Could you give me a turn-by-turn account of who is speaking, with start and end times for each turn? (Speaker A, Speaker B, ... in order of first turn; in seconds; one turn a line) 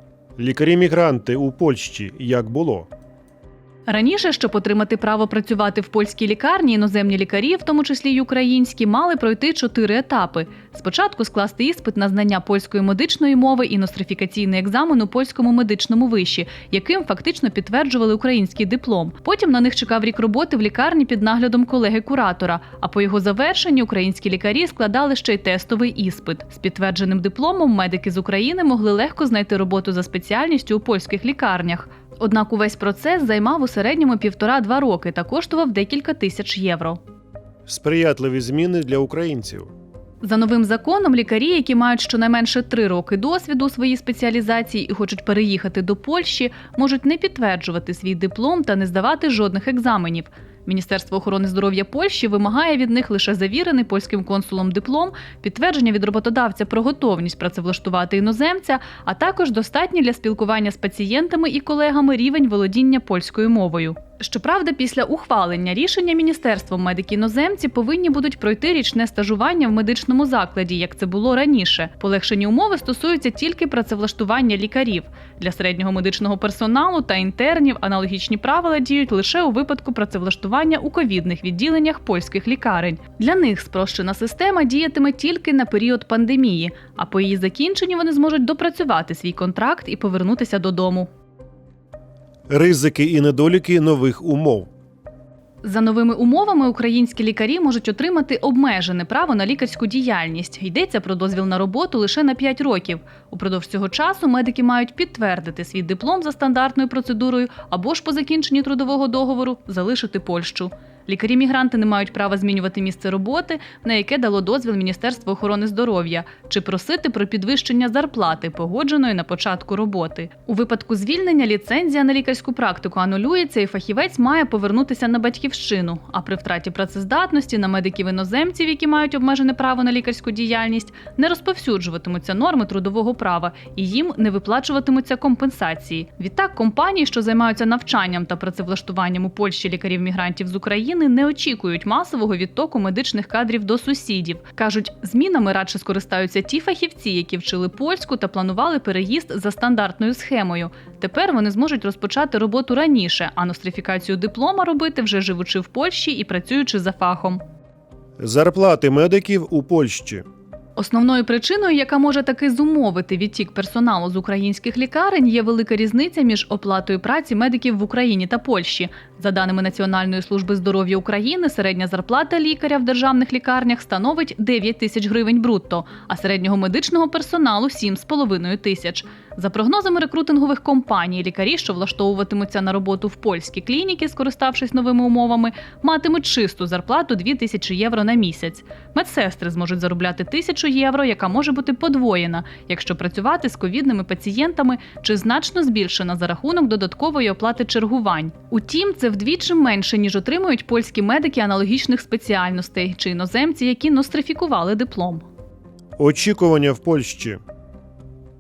Speaker A: 0.4-2.9
Speaker B: 3.9-37.0
Speaker A: 37.7-39.7
Speaker B: 40.2-91.1
Speaker A: 92.5-94.7
Speaker B: 95.6-157.4
Speaker A: 158.2-160.2
Speaker B: 160.8-205.2
Speaker A: 206.0-207.4